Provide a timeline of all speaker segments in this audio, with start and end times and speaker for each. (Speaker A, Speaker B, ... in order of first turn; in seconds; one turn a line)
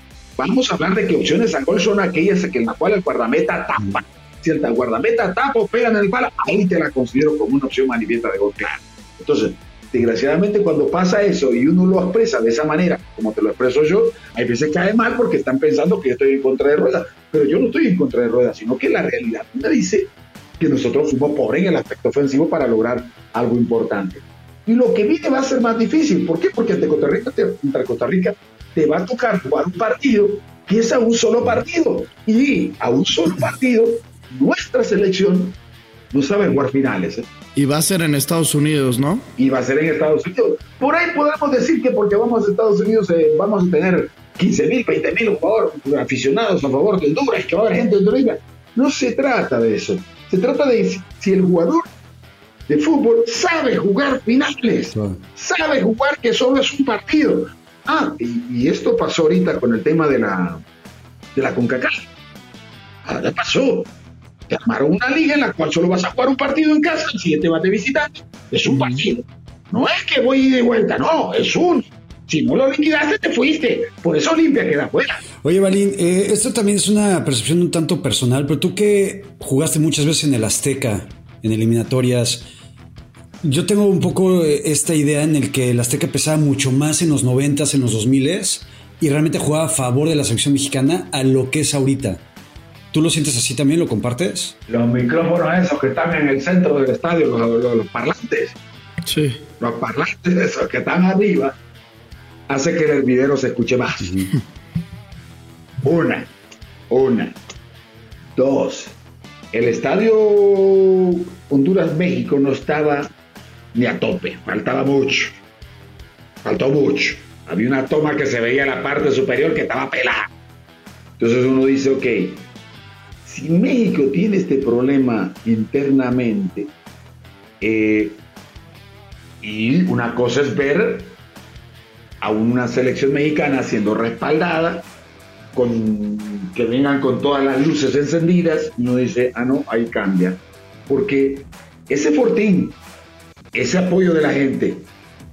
Speaker A: 0.4-35.6
Speaker A: 36.1-37.3
Speaker B: 37.5-39.3
Speaker A: 39.4-51.9
Speaker A: 52.7-60.6
Speaker C: 54.9-55.2
Speaker A: 61.3-62.1
Speaker A: 63.0-63.9
Speaker A: 64.5-75.2
Speaker B: 68.7-69.0
Speaker C: 75.4-82.5
Speaker C: 83.4-92.2
Speaker C: 92.9-94.5
Speaker A: 94.7-98.6
Speaker B: 99.0-99.4
Speaker A: 99.6-101.6
Speaker A: 102.5-104.2
Speaker C: 104.0-104.3
Speaker A: 105.8-106.3
Speaker A: 106.9-107.4
Speaker A: 108.3-109.0
Speaker A: 109.5-113.1
Speaker A: 113.7-115.4
Speaker A: 116.4-120.3
Speaker A: 121.2-122.4
Speaker A: 123.2-126.7
Speaker A: 127.6-128.2
Speaker A: 129.4-131.2
Speaker A: 132.2-134.9
Speaker A: 135.5-142.8
Speaker A: 143.5-144.9